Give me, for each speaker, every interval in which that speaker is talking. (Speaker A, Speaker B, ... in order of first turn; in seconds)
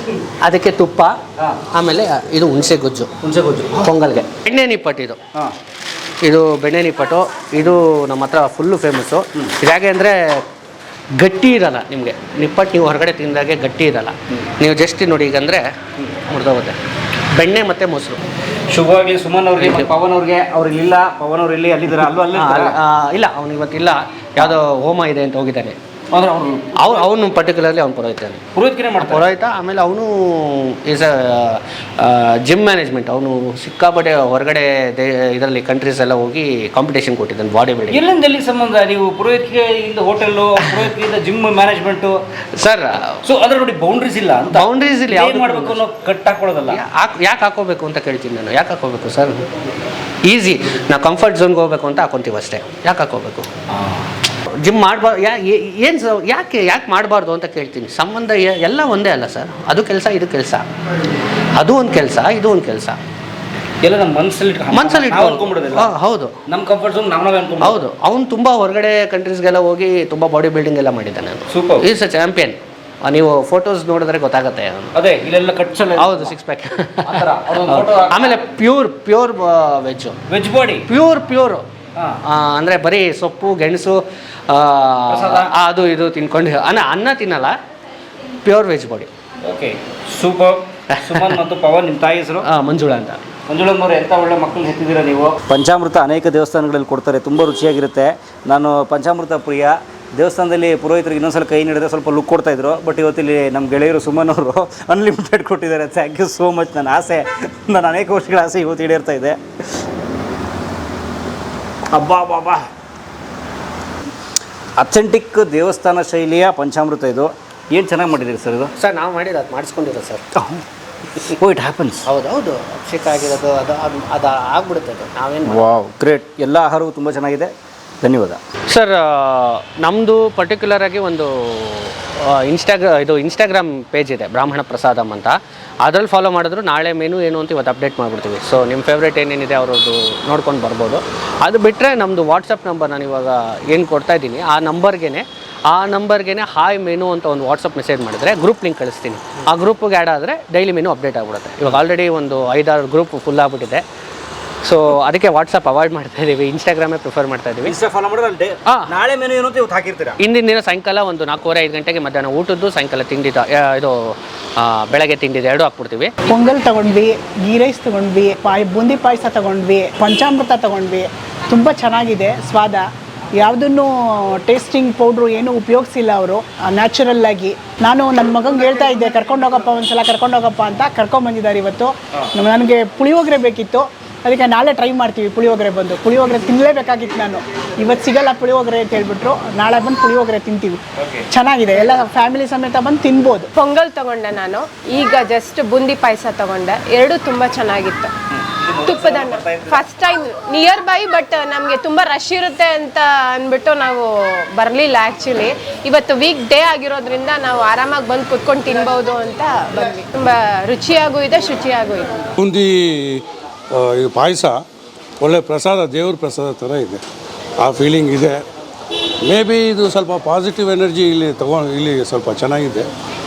Speaker A: 0.4-1.1, 1.7-3.1, 3.7-5.2, 6.2-10.4, 11.2-15.7, 16.2-16.8, 17.3-18.2, 19.6-19.9, 22.3-25.8, 26.8-28.4, 29.0-38.0, 42.5-43.1, 44.5-45.8, 46.7-49.4, 50.2-53.5, 54.6-60.6, 61.6-63.0, 64.7-66.3, 67.6-74.9, 76.0-80.2, 80.8-81.6, 82.2-87.5, 88.4-89.1, 90.9-91.4, 92.4-93.2, 118.8-120.2, 122.0-125.6, 128.7-153.8, 154.6-157.7, 158.7-158.9, 160.2-166.1
Speaker B: 3.2-3.8, 18.7-22.7, 26.1-27.0, 28.5-29.2, 37.9-42.2, 43.2-46.8, 63.8-65.9, 66.5-67.8, 71.5-71.8, 74.9-76.3, 77.0-78.4, 80.3-80.8, 85.1-85.5, 89.4-92.4, 93.5-109.4, 111.9-112.6, 114.8-118.7, 121.4-122.0, 125.5-127.5, 128.0-128.4, 157.6-160.2, 191.0-191.2, 198.3-199.8
Speaker C: 166.3-172.8, 173.4-190.7, 191.3-193.4
Speaker D: 193.5-198.1, 198.8-212.1
Speaker E: 212.4-214.6, 215.2-217.0, 217.6-218.4, 219.2-222.9